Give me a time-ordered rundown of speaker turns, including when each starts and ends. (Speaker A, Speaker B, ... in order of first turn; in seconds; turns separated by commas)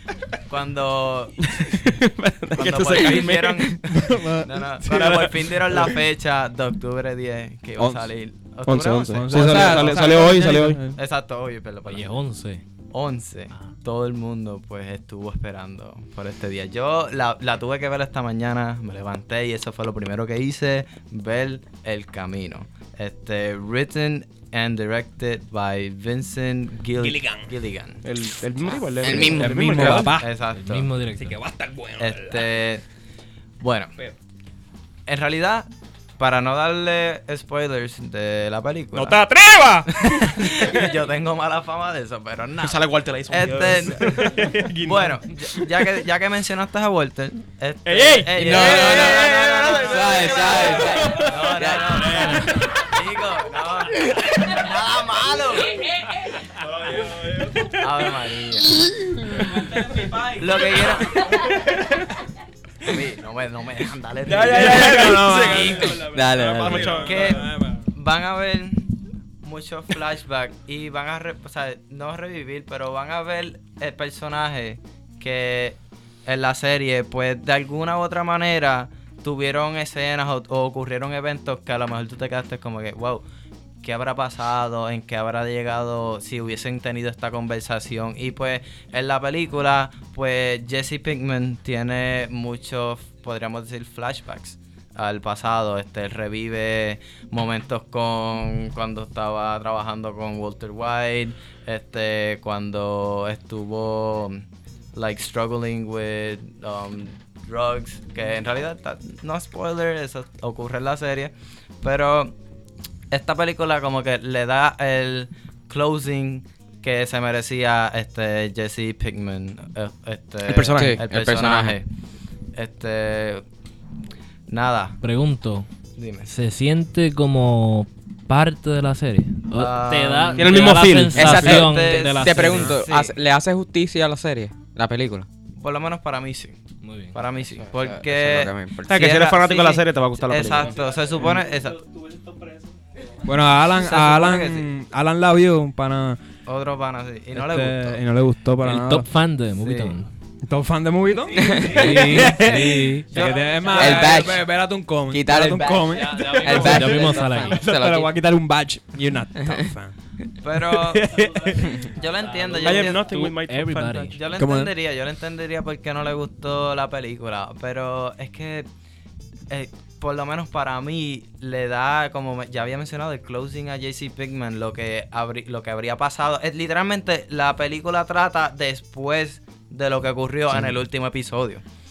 Speaker A: 0.4-1.4, Speaker B: 1.4-4.1, Speaker A: 2.5-10.3, Speaker C: 3.8-5.9, Speaker C: 7.8-8.1, Speaker B: 8.7-10.8, Speaker C: 9.1-11.0, Speaker A: 10.9-12.1, Speaker D: 11.9-12.6, Speaker A: 12.9-28.0, Speaker C: 27.0-27.5, Speaker B: 28.0-30.1, Speaker E: 29.0-29.9, Speaker C: 29.1-30.3, Speaker A: 29.7-30.9, Speaker D: 30.5-31.4, Speaker C: 31.1-32.5, Speaker A: 32.0-32.8, Speaker A: 33.6-33.9, Speaker A: 35.1-39.2, Speaker C: 38.9-40.7, Speaker A: 39.9-55.8, Speaker B: 42.6-44.2, Speaker C: 43.4-45.8, Speaker C: 47.9-48.9, Speaker E: 48.3-52.3, Speaker B: 48.4-51.2, Speaker C: 50.9-51.3, Speaker C: 51.9-52.7, Speaker C: 56.9-57.7, Speaker A: 57.7-58.9, Speaker A: 60.0-61.5, Speaker A: 62.8-66.0, Speaker B: 64.2-67.4, Speaker C: 64.4-67.8, Speaker E: 66.0-67.0, Speaker A: 66.9-83.2, Speaker A: 83.8-112.3, Speaker A: 113.1-121.9, Speaker B: 120.5-121.0, Speaker E: 120.7-121.8, Speaker A: 122.5-123.4, Speaker A: 124.5-125.0, Speaker D: 125.0-125.7, Speaker A: 126.0-126.3, Speaker D: 126.3-132.7, Speaker A: 129.5-130.6, Speaker B: 130.4-131.5, Speaker E: 131.1-135.3, Speaker A: 131.2-133.2, Speaker A: 135.6-136.6, Speaker D: 136.8-137.2, Speaker A: 137.1-141.8, Speaker E: 137.7-139.1, Speaker B: 138.9-140.8, Speaker C: 143.2-146.2, Speaker A: 143.7-144.7, Speaker A: 146.4-148.0, Speaker C: 147.3-149.1, Speaker D: 148.6-150.1, Speaker A: 149.6-149.9, Speaker C: 150.4-159.9, Speaker E: 151.3-152.2, Speaker D: 151.4-154.0, Speaker A: 151.9-152.5, Speaker A: 153.1-154.3, Speaker E: 153.7-154.4, Speaker E: 155.1-158.1, Speaker D: 155.9-157.6, Speaker A: 156.6-157.4, Speaker A: 160.4-161.2, Speaker C: 160.5-161.8, Speaker A: 161.8-163.1, Speaker D: 162.2-164.2, Speaker B: 162.6-164.1, Speaker A: 164.1-168.7, Speaker C: 164.4-164.7, Speaker A: 169.5-181.6